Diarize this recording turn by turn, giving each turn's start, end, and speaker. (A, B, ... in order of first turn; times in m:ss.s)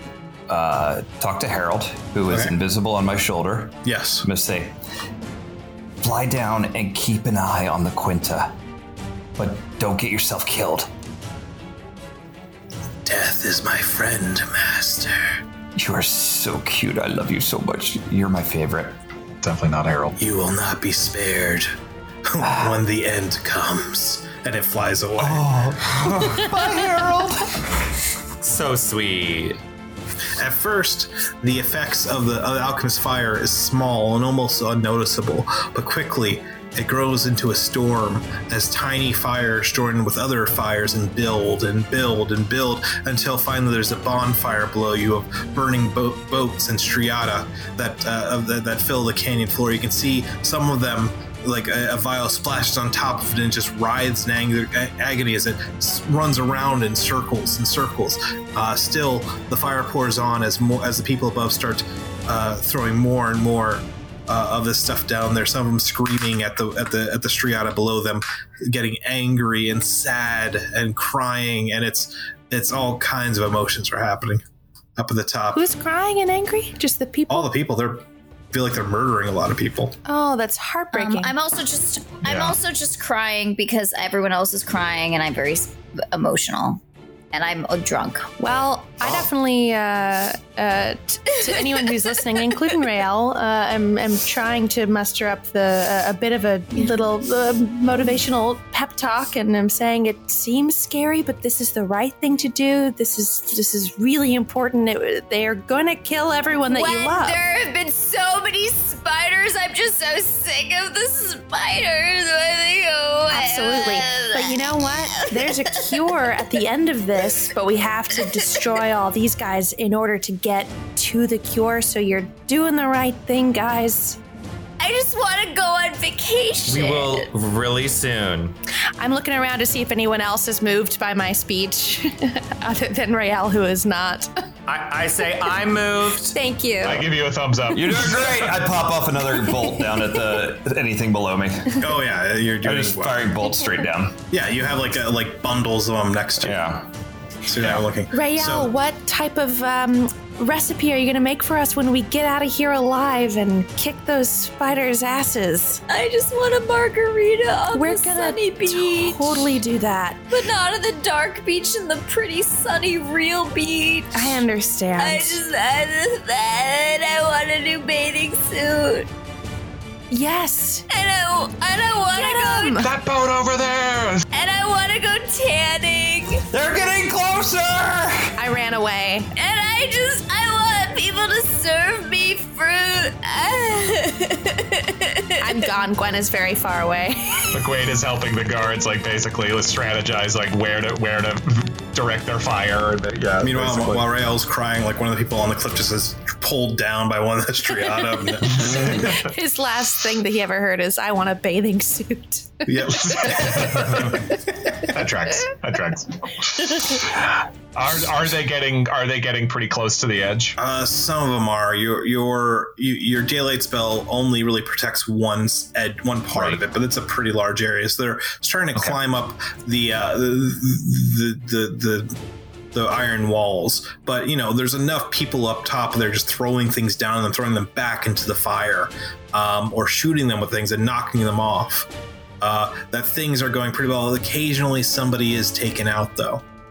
0:00.5-0:04.8 A
0:02.3-0:02.5 B
0:03.8-0:04.3 B
0:06.0-0:08.5 A
0:09.4-0:10.9 A
0:13.0-0:15.2 B
0:15.8-0:19.0 A
0:19.4-0:20.2 C
0:20.2-0:21.7 B
0:22.2-0:25.5 B
0:22.4-0:22.8 A
0:25.2-0:27.6 A
0:28.4-0:29.6 D
0:30.4-1:14.4 B
1:15.0-1:15.6 B
1:15.5-1:17.5 E
1:17.3-1:20.0 B
1:20.0-1:21.3 E
1:20.9-1:26.8 F
1:22.2-1:22.6 C
1:27.3-1:28.3 F
1:28.4-1:47.4 E
1:31.5-1:31.8 F
1:46.7-1:56.4 F
1:53.3-2:04.2 E
1:58.2-1:58.4 F
2:04.8-2:07.3 F
2:06.7-2:08.5 D
2:09.0-2:14.3 E
2:14.7-2:16.4 D
2:16.3-2:17.1 E
2:16.8-2:18.6 C
2:17.7-2:22.0 A
2:19.8-2:20.0 E
2:21.8-2:23.3 B
2:22.6-2:24.1 A
2:24.3-2:26.6 B
2:26.4-2:26.9 A
2:27.5-2:28.7 B
2:27.6-2:27.8 C
2:28.1-2:35.8 E
2:35.9-2:39.5 F
2:37.7-2:40.2 E
2:40.3-2:44.4 F
2:44.1-2:45.4 E
2:45.0-2:49.1 F
2:50.1-2:50.8 E
2:50.9-2:52.8 F
2:52.1-2:52.9 E
2:52.8-2:54.2 C
2:54.3-2:56.4 F
2:56.5-2:58.4 A
2:58.4-2:59.3 E
2:59.3-3:05.7 F
3:05.4-3:07.6 E
3:07.5-3:14.1 C
3:13.4-3:19.3 B
3:18.4-3:22.8 E
3:22.7-3:24.8 B
3:23.0-3:24.2 C
3:24.8-3:30.6 C
3:30.6-3:42.2 B
3:36.3-3:36.6 C
3:42.7-3:51.9 B
3:52.4-3:56.4 B